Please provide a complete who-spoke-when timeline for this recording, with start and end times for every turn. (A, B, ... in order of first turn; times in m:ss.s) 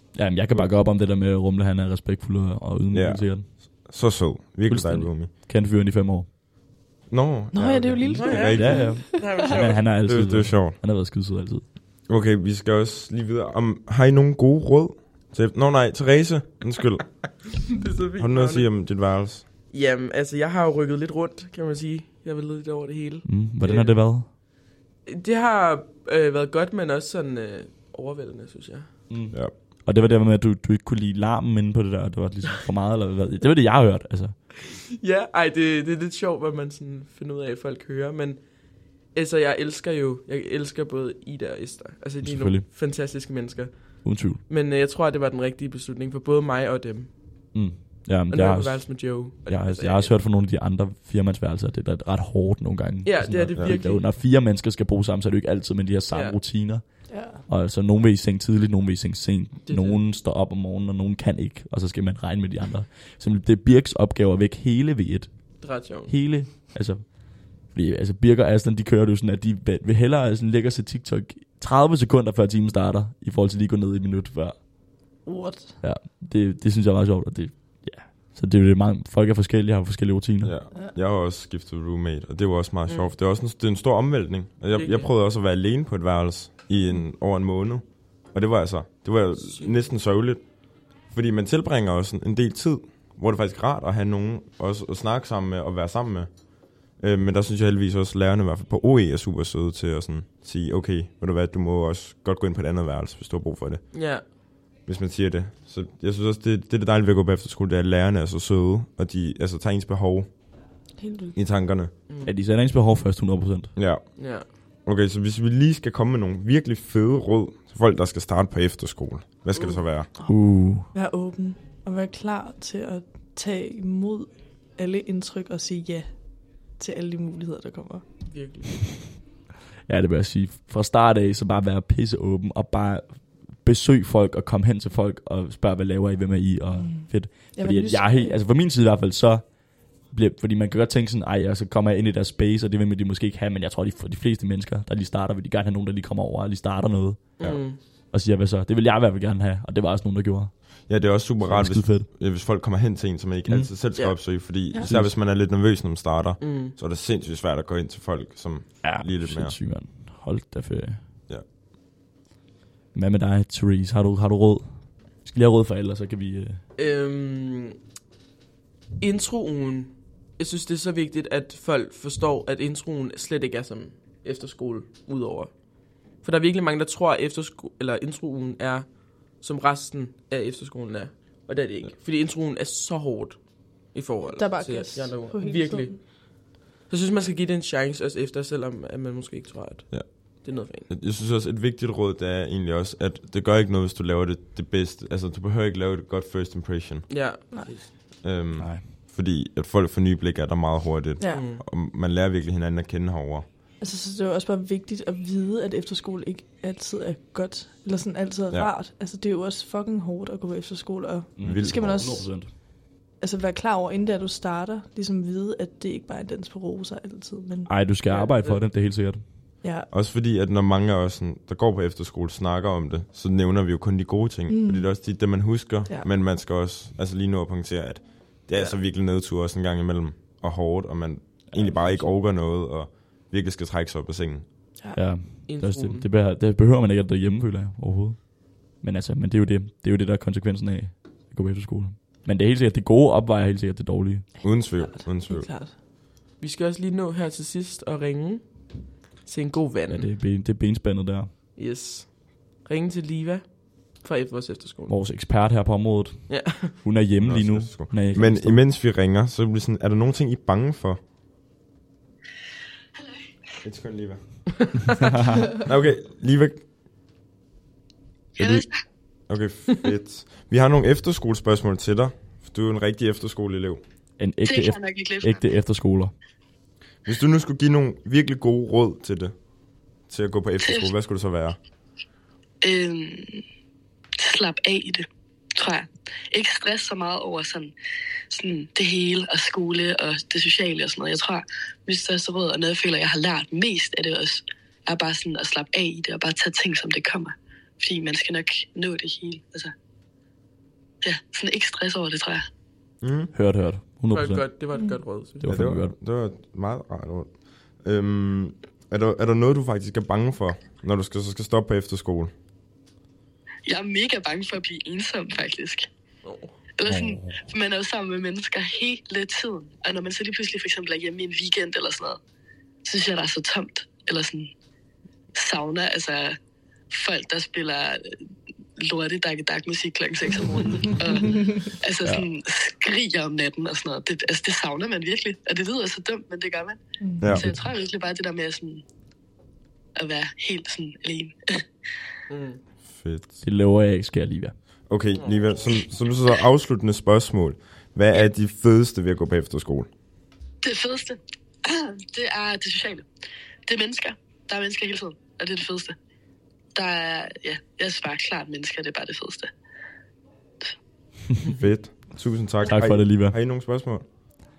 0:00.1-0:03.5 A
0:02.9-0:05.3 B
0:04.7-0:06.3 A
0:07.1-0:08.9 B
0:07.5-0:09.4 C
0:08.2-0:09.9 D
0:08.2-0:11.6 A
0:10.1-0:10.8 B
0:12.1-0:17.5 B
0:17.7-0:18.8 D
0:18.2-0:19.4 B
0:19.7-0:24.0 D
0:23.2-0:24.3 A
0:25.1-0:28.9 D
0:29.1-0:34.4 A
0:35.0-0:47.5 D
0:42.2-0:42.7 A
0:44.0-0:44.4 A
0:47.5-1:14.6 A
0:48.3-0:50.2 D
0:53.0-0:54.1 D
0:56.1-0:56.4 D
0:57.1-0:57.4 C
0:59.6-1:00.0 D
1:05.6-1:06.1 D
1:15.2-1:15.8 C
1:15.8-1:20.6 A
1:20.4-1:30.5 B
1:22.9-1:23.2 D
1:24.7-1:25.1 D
1:29.4-1:29.9 D
1:31.0-1:44.0 B
1:43.9-1:44.2 D
1:44.8-1:50.4 B
1:51.0-1:51.4 C
1:51.3-1:52.0 B
1:52.2-1:53.7 A
1:53.8-1:54.2 B
1:54.2-1:54.5 D
1:54.8-2:00.1 B
1:59.6-1:59.8 D
2:00.2-2:08.0 C
2:00.3-2:00.9 A
2:08.3-2:08.7 D
2:09.9-2:30.6 A
2:16.8-2:18.4 C
2:27.4-2:27.8 D
2:27.4-2:27.7 B
2:30.8-2:39.6 B
2:31.4-2:32.1 A
2:33.5-2:33.7 A
2:33.9-2:34.2 D
2:34.8-2:35.2 A
2:36.4-2:36.8 D
2:38.8-2:41.0 A
2:42.9-2:46.6 A
2:46.8-2:47.8 D
2:49.0-3:10.9 D
3:04.3-3:06.0 C
3:09.9-3:17.2 B
3:17.1-3:17.9 D
3:18.2-3:23.5 B
3:18.6-3:18.9 A
3:21.2-3:21.4 C
3:21.3-3:21.6 D
3:23.8-3:32.4 C
3:31.4-3:32.5 A
3:31.4-3:32.0 B
3:33.2-3:37.7 C
3:37.7-3:39.2 A
3:38.1-3:38.6 D
3:39.6-3:39.9 C
3:39.9-3:54.5 B
3:44.5-3:45.0 C
3:51.5-3:52.1 A
3:54.9-4:04.3 A
3:55.5-3:56.1 D
4:04.4-4:05.5 B
4:04.4-4:05.8 C
4:06.4-4:10.1 D
4:09.9-4:11.3 A
4:11.6-4:14.9 D
4:14.9-4:18.6 A
4:16.3-4:16.8 D
4:17.2-4:21.0 B
4:23.6-4:24.6 B
4:25.0-4:25.6 A
4:25.6-4:26.7 B
4:28.4-4:28.8 E
4:28.4-4:28.7 B
4:29.3-4:33.8 B
4:34.2-4:36.1 A
4:34.4-4:35.4 E
4:37.0-4:39.3 B
4:40.1-4:41.6 B
4:40.6-4:40.9 E
4:42.6-4:43.4 E
4:44.2-4:47.7 E
4:48.3-4:59.7 E
5:01.0-5:02.4 E
5:03.0-5:03.3 B
5:03.3-5:04.5 A
5:04.1-5:05.5 D
5:04.7-5:05.0 C
5:05.4-5:06.0 A
5:05.5-5:12.3 B
5:13.7-5:15.9 E
5:16.2-5:16.6 D
5:16.8-5:22.2 E
5:16.9-5:17.4 A
5:22.8-5:24.5 E
5:25.4-5:26.4 E
5:26.9-5:28.2 E
5:28.8-5:38.8 E
5:37.0-5:37.7 C
5:37.2-5:37.5 B
5:40.0-5:41.4 E
5:42.3-5:42.6 D
5:42.9-5:43.4 B
5:43.4-5:44.5 A
5:44.9-5:49.9 B
5:45.1-5:45.6 D
5:50.6-5:53.1 E
5:53.7-5:56.0 E
5:56.8-5:59.5 E
6:01.5-6:04.0 B
6:02.6-6:03.4 A